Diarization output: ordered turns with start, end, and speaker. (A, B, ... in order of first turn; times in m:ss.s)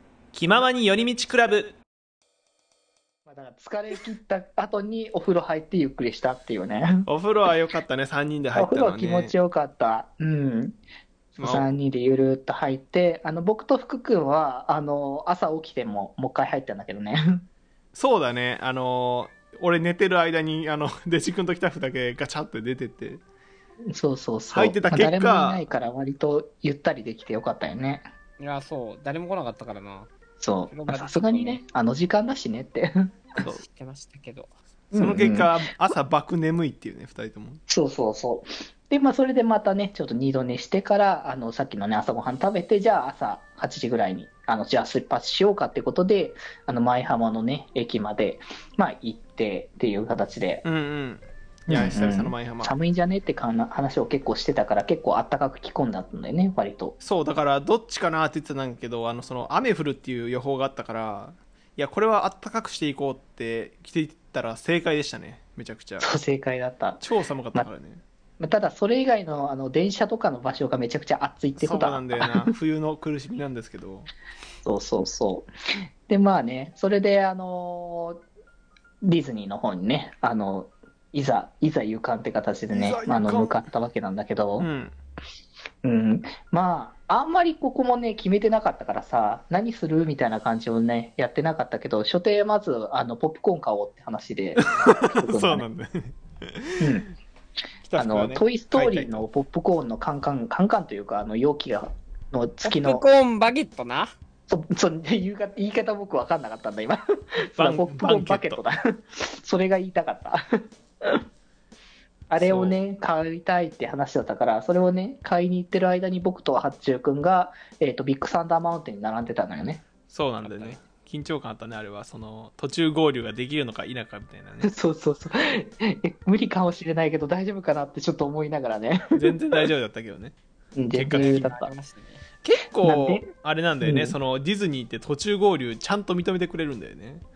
0:00.3-0:01.8 A
0:03.2-0:07.1 B
0:07.0-0:09.3 A
0:08.5-0:10.8 B
0:11.4-0:17.4 B
0:11.4-0:11.7 A
0:17.9-0:23.2 A
0:23.9-0:28.1 B
0:24.5-0:25.6 A
0:28.4-0:30.1 C
0:30.4-0:33.1 B
0:30.7-0:31.6 C
0:33.4-0:34.5 C
0:34.9-0:37.6 A
0:34.9-0:35.6 B
0:37.7-0:50.6 B
0:50.6-0:52.7 A
0:51.7-0:56.9 B
0:57.0-1:06.1 A
1:06.0-1:07.7 B
1:07.0-1:08.0 A
1:08.4-1:12.5 B
1:11.6-1:14.1 A
1:14.6-1:15.5 B
1:16.1-1:18.2 B
1:19.0-1:24.7 B
1:22.7-1:23.6 A
1:24.6-1:24.9 A
1:25.8-1:35.7 B
1:34.6-1:36.8 A
1:36.8-1:37.1 B
1:37.8-1:39.2 A
1:38.0-1:43.0 B
1:42.6-1:44.1 C
1:44.5-1:50.4 B
1:47.6-1:48.6 A
1:52.3-1:59.8 B
1:52.4-1:52.8 A
2:00.1-2:04.7 A
2:00.4-2:00.8 C
2:04.6-2:09.6 B
2:09.1-2:10.3 A
2:10.7-2:11.7 B
2:10.9-2:11.5 A
2:11.1-2:12.2 C
2:12.4-2:17.2 A
2:12.8-2:13.3 B
2:13.8-2:14.2 B